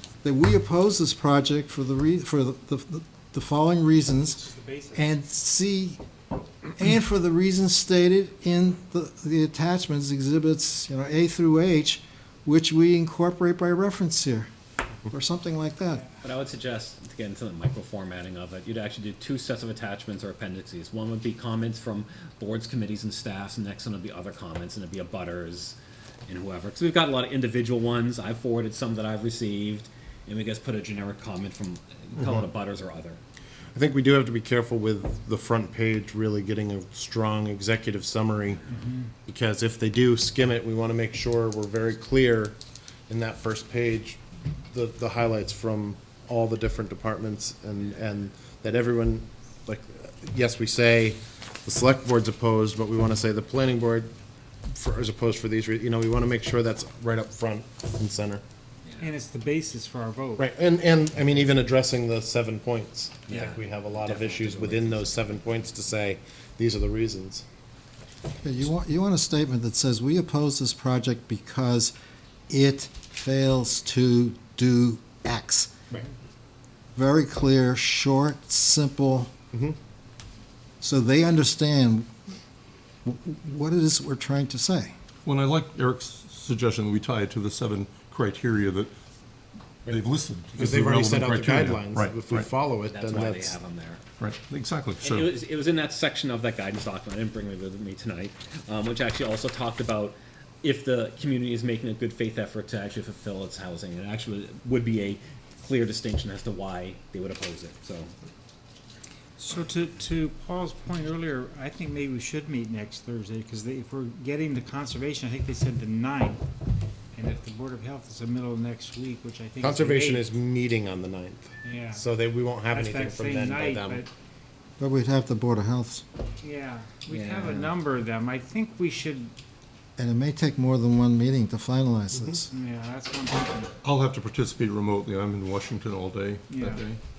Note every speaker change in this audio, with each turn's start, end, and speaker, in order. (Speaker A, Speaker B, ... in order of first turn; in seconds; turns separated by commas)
Speaker A: 0.2-6.0, Speaker B: 4.3-5.0, Speaker A: 6.7-14.5, Speaker A: 15.1-16.1, Speaker C: 16.2-25.8, Speaker C: 26.3-33.2, Speaker D: 32.2-32.5, Speaker D: 33.7-38.6, Speaker B: 38.7-39.1, Speaker D: 39.2-42.5, Speaker D: 43.1-54.1, Speaker D: 54.7-58.4, Speaker B: 59.0-60.4, Speaker D: 60.4-67.4, Speaker C: 63.3-65.2, Speaker A: 68.4-71.9, Speaker A: 72.5-75.7, Speaker A: 76.9-79.3, Speaker D: 79.5-79.8, Speaker A: 80.8-82.1, Speaker A: 83.0-84.9, Speaker E: 85.2-88.9, Speaker E: 89.8-92.5, Speaker D: 90.5-93.6, Speaker C: 92.9-94.0, Speaker E: 94.2-95.3, Speaker C: 95.0-108.1, Speaker B: 109.4-116.4, Speaker B: 117.1-120.3, Speaker D: 119.6-124.0, Speaker B: 121.6-122.0, Speaker B: 122.7-124.1, Speaker A: 124.8-126.0, Speaker B: 126.4-129.3, Speaker C: 127.1-127.7, Speaker A: 130.0-132.5, Speaker B: 132.5-133.7, Speaker E: 133.8-137.0, Speaker B: 136.5-136.8